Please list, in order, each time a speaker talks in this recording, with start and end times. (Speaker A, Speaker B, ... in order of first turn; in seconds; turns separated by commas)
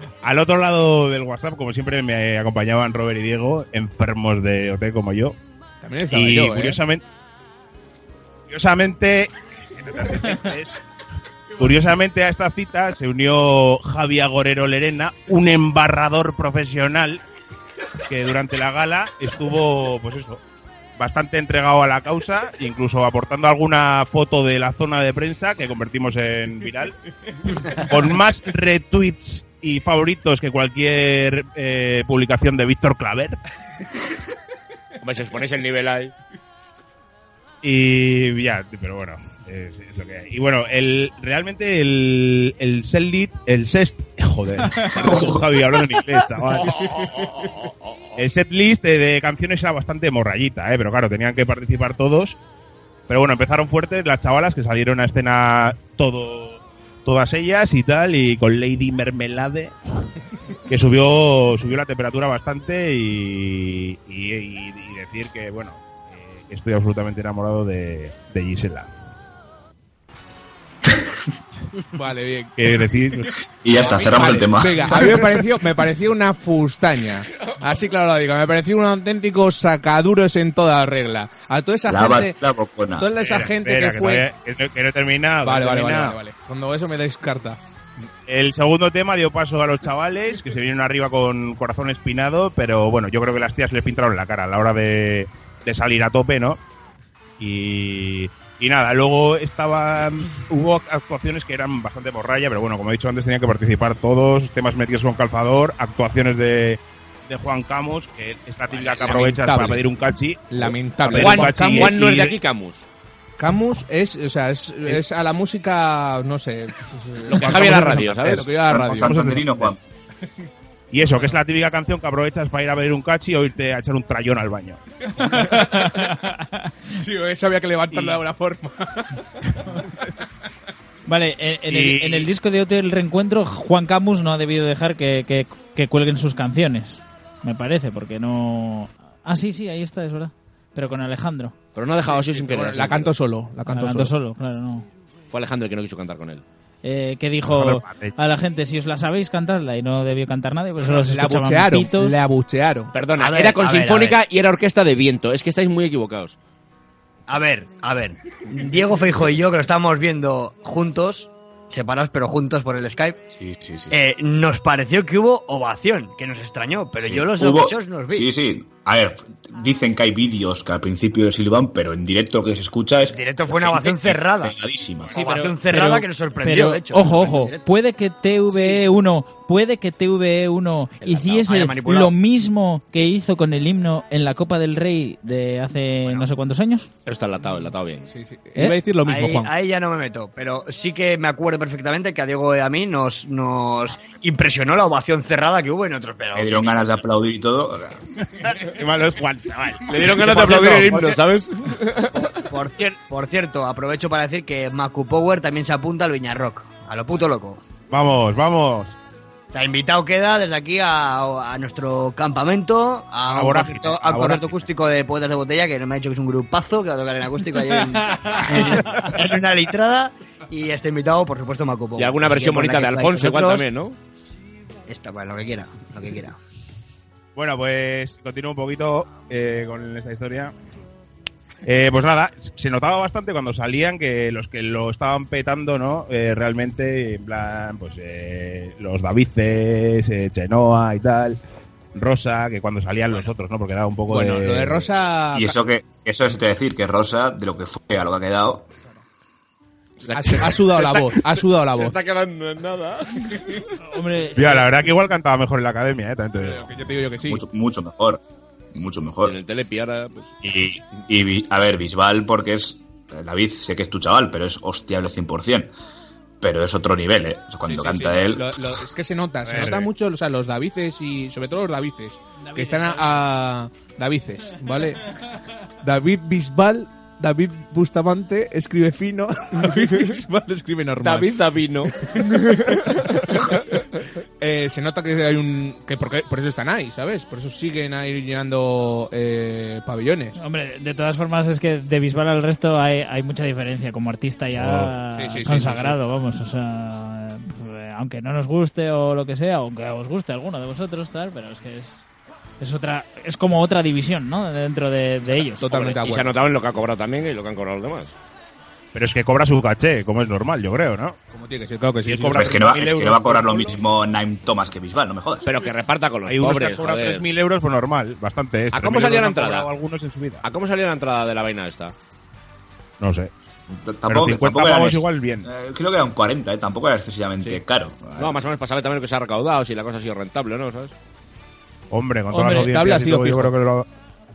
Speaker A: 0.2-5.3, Speaker B: 5.8-6.8, Speaker A: 6.1-7.0, Speaker A: 8.5-10.8, Speaker A: 11.6-17.2, Speaker A: 18.1-20.4, Speaker A: 21.0-26.9, Speaker A: 27.6-33.4, Speaker C: 35.0-36.1, Speaker A: 37.6-46.9, Speaker D: 45.0-45.4, Speaker C: 46.7-47.9, Speaker A: 48.1-52.4, Speaker A: 53.1-59.7, Speaker A: 60.7-68.9, Speaker B: 71.9-72.9, Speaker A: 72.6-73.3, Speaker D: 73.6-75.3, Speaker B: 73.7-82.3, Speaker D: 81.9-83.1, Speaker B: 83.0-84.2, Speaker A: 83.2-86.2, Speaker B: 85.4-87.6, Speaker A: 88.3-96.6, Speaker A: 97.4-112.3, Speaker C: 108.7-109.1, Speaker B: 108.9-109.8, Speaker B: 110.5-112.0, Speaker C: 111.1-112.8, Speaker B: 113.4-119.1, Speaker C: 117.3-118.5, Speaker D: 118.5-119.8, Speaker A: 118.8-119.7, Speaker A: 120.9-124.8, Speaker E: 125.2-126.7, Speaker B: 127.0-129.2, Speaker E: 131.1-141.5, Speaker A: 131.7-132.3, Speaker C: 141.7-143.1, Speaker B: 142.1-144.1, Speaker E: 143.7-144.9, Speaker C: 145.3-146.4, Speaker E: 146.8-152.2, Speaker A: 147.4-148.1, Speaker B: 150.8-152.9, Speaker C: 152.9-156.3, Speaker F: 153.2-154.2, Speaker F: 157.3-163.2, Speaker D: 163.3-163.9, Speaker F: 163.9-168.3, Speaker D: 167.0-175.1, Speaker F: 173.1-174.5, Speaker E: 175.1-186.9, Speaker F: 175.1-177.6, Speaker F: 181.0-182.1, Speaker C: 187.1-188.1, Speaker B: 188.1-189.5, Speaker F: 189.1-196.8, Speaker D: 196.3-198.0, Speaker A: 198.4-199.8, Speaker C: 199.9-202.3, Speaker B: 200.1-201.2, Speaker F: 200.5-201.2, Speaker F: 202.1-207.6, Speaker A: 207.9-208.9, Speaker F: 209.5-223.6, Speaker A: 213.3-214.7, Speaker C: 222.0-223.9, Speaker F: 224.9-226.4, Speaker A: 227.3-230.5, Speaker A: 231.6-241.4, Speaker A: 241.9-244.9, Speaker B: 244.1-245.6, Speaker D: 245.3-248.7, Speaker C: 250.0-253.6, Speaker B: 250.1-252.0, Speaker E: 253.8-254.7, Speaker A: 254.3-256.7, Speaker B: 256.3-257.4, Speaker D: 257.2-258.2, Speaker D: 258.7-259.4, Speaker C: 259.2-260.3, Speaker D: 260.4-265.7, Speaker D: 266.4-268.8, Speaker B: 267.6-275.1, Speaker A: 269.4-269.9, Speaker E: 272.4-273.2, Speaker B: 275.8-281.4, Speaker C: 281.0-281.9, Speaker B: 282.0-283.6, Speaker B: 284.4-290.4, Speaker E: 290.4-302.0, Speaker A: 294.5-294.9, Speaker B: 295.1-296.0, Speaker E: 302.6-306.0, Speaker B: 305.6-306.4, Speaker C: 305.9-308.1, Speaker A: 308.9-311.2, Speaker B: 311.3-312.6, Speaker A: 312.1-313.8, Speaker D: 312.3-315.5, Speaker C: 315.4-317.2, Speaker A: 316.3-320.4, Speaker C: 318.7-319.7, Speaker C: 320.4-321.9, Speaker A: 323.0-323.3, Speaker D: 323.7-328.4, Speaker A: 324.1-325.4, Speaker C: 328.2-330.9, Speaker A: 331.9-333.9, Speaker B: 332.3-333.5